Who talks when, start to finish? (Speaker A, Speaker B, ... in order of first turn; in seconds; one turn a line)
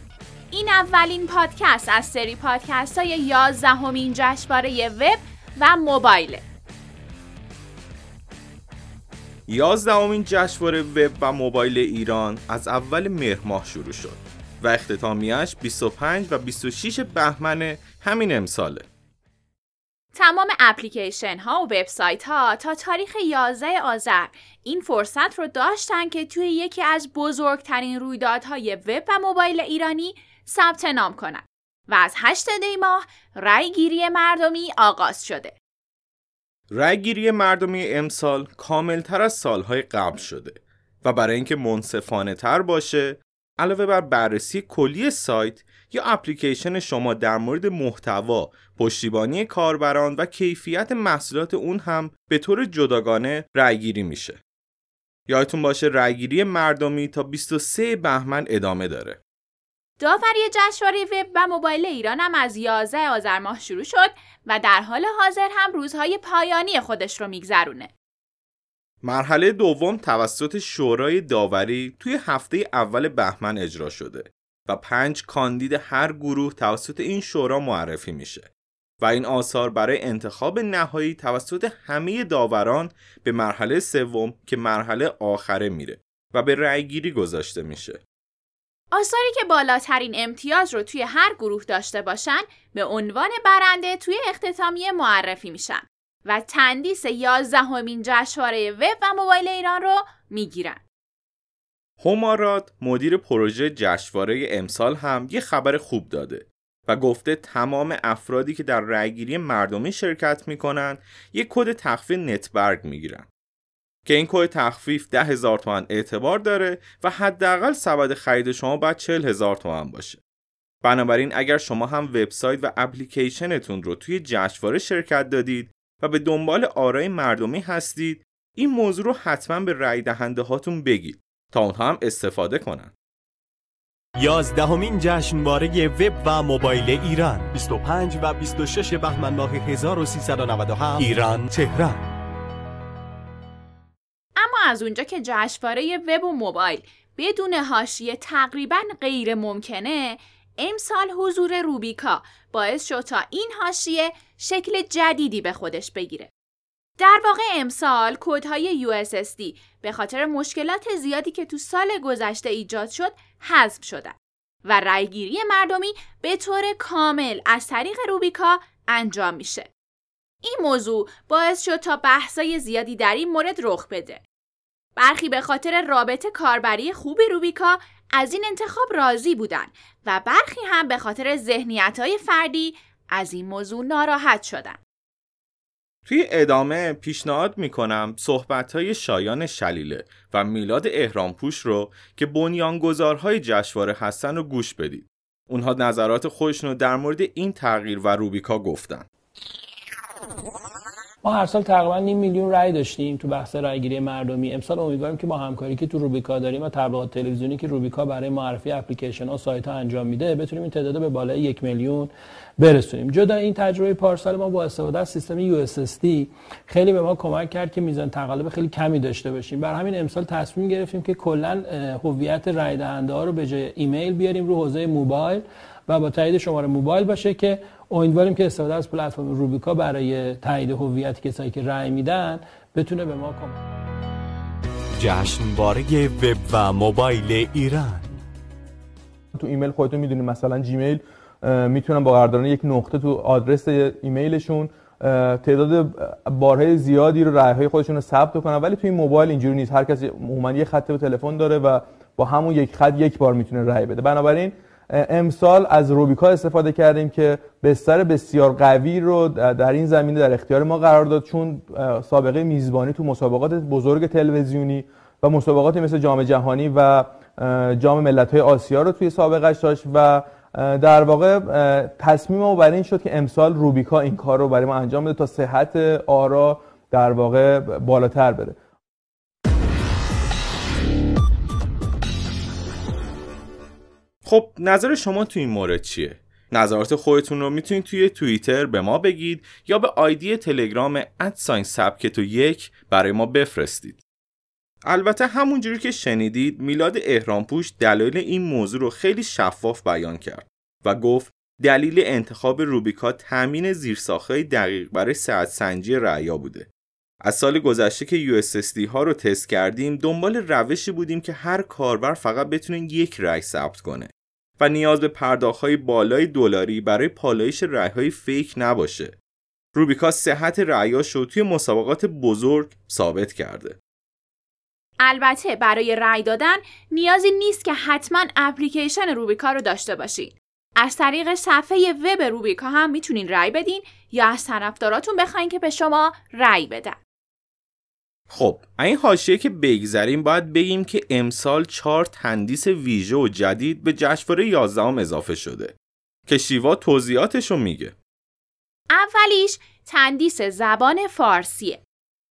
Speaker A: 0.5-6.4
Speaker B: 9.5-18.9
Speaker A: 20.1-35.5
Speaker B: 36.7-54.4
Speaker B: 55.3-59.2
Speaker A: 60.0-67.9
Speaker B: 69.0-78.5
Speaker B: 79.0-88.0
Speaker A: 88.9-100.8
Speaker B: 102.0-113.3
Speaker B: 114.1-120.2
Speaker B: 120.8-132.9
Speaker C: 134.2-142.1
Speaker A: 144.4-156.3
Speaker A: 157.0-169.7
Speaker A: 170.4-174.2
Speaker A: 175.0-184.8
Speaker B: 186.1-199.1
Speaker D: 201.2-233.6
Speaker C: 235.0-238.2
Speaker E: 239.4-278.6
Speaker B: 284.3-294.0
Speaker B: 294.9-306.7
Speaker B: 307.2-319.1
Speaker B: 319.8-323.8
Speaker A: 325.0-337.0
Speaker B: 338.3-345.7
Speaker B: 346.3-347.9
Speaker A: 348.9-351.8